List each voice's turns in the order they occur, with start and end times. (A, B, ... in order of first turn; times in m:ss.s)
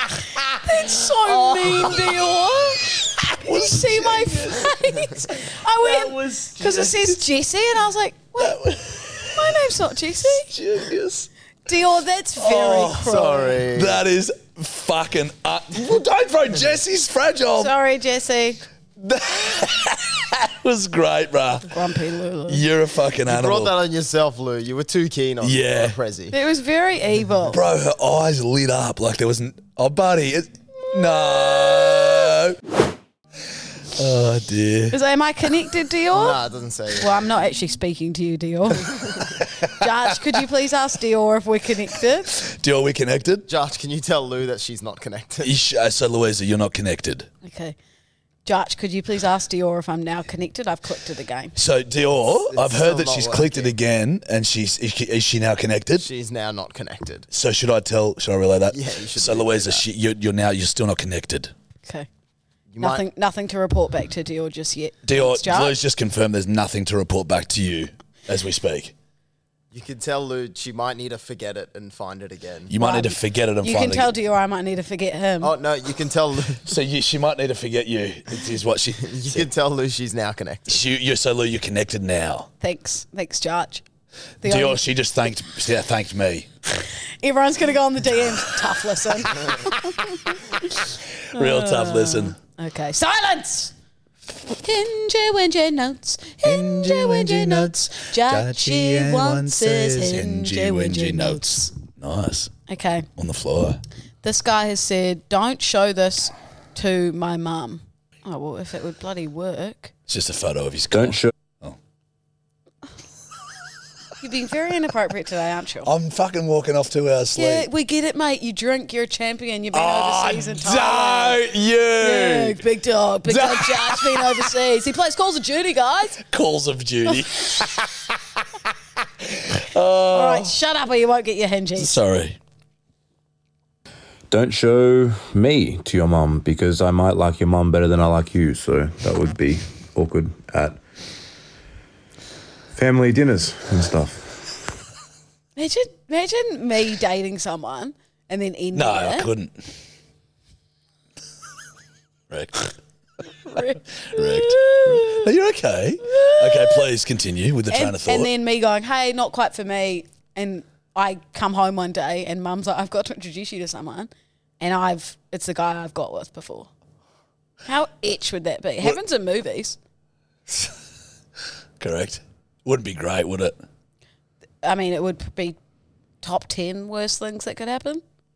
0:00.4-0:02.2 A
0:00.6-0:08.6 B
0:03.2-0:07.2 A
0:08.4-0:09.6 A
0:09.2-0:10.5 B
0:10.3-0:11.3 A
0:11.6-0:13.6 B
0:12.4-0:17.7 A
0:13.0-0:14.0 C
0:17.6-0:18.6 B
0:19.0-0:21.8 A
0:21.7-0:22.6 B
0:22.5-0:23.7 A
0:23.2-0:26.4 C
0:25.4-0:26.0 A
0:26.3-0:27.6 B
0:27.5-0:32.6 A
0:30.9-0:31.9 B
0:33.9-0:35.0 A
0:34.9-0:36.4 B
0:36.1-0:37.2 C
0:37.0-0:39.0 B
0:39.6-0:42.3 B
0:42.3-0:43.4 A
0:43.5-0:45.5 C
0:45.4-0:47.3 A
0:47.4-0:47.8 B
0:48.4-0:51.5 B
0:51.5-0:56.0 A
0:52.5-0:53.7 C
0:56.0-0:57.3 C
0:57.3-1:01.5 A
0:58.7-0:59.8 C
1:02.7-1:03.0 C
1:02.8-1:05.8 B
1:05.0-1:08.9 A
1:09.7-1:12.7 C
1:12.7-1:14.1 A
1:12.8-1:15.5 B
1:15.4-1:16.6 C
1:16.6-1:19.5 A
1:19.0-1:20.8 C
1:20.7-1:22.5 A
1:22.6-1:23.8 B
1:24.4-1:24.8 B
1:24.4-1:26.5 A
1:26.8-1:30.8 B
1:31.3-1:32.4 A
1:31.3-1:33.7 B
1:34.6-1:41.7 B
1:36.4-1:42.5 A
1:42.7-1:43.1 B
1:43.2-1:43.8 A
1:44.2-1:49.9 B
1:50.1-1:51.8 A
1:54.2-1:55.9 B
1:55.8-1:57.7 A
1:57.4-2:01.4 B
1:59.7-2:02.6 A
2:02.0-2:06.2 B
2:03.2-2:04.4 A
2:06.2-2:08.1 A
2:09.3-2:10.5 A
2:10.1-2:12.0 B
2:11.8-2:12.4 A
2:14.3-2:20.8 D
2:22.7-2:24.4 D
2:25.6-2:29.3 B
2:28.7-2:29.7 A
2:32.3-2:32.7 A
2:33.4-2:35.3 B
2:34.0-2:38.3 A
2:36.0-2:36.8 B
2:37.7-2:46.7 B
2:47.6-2:49.8 B
2:51.8-2:53.6 A
2:54.6-2:55.6 B
2:56.2-2:58.0 B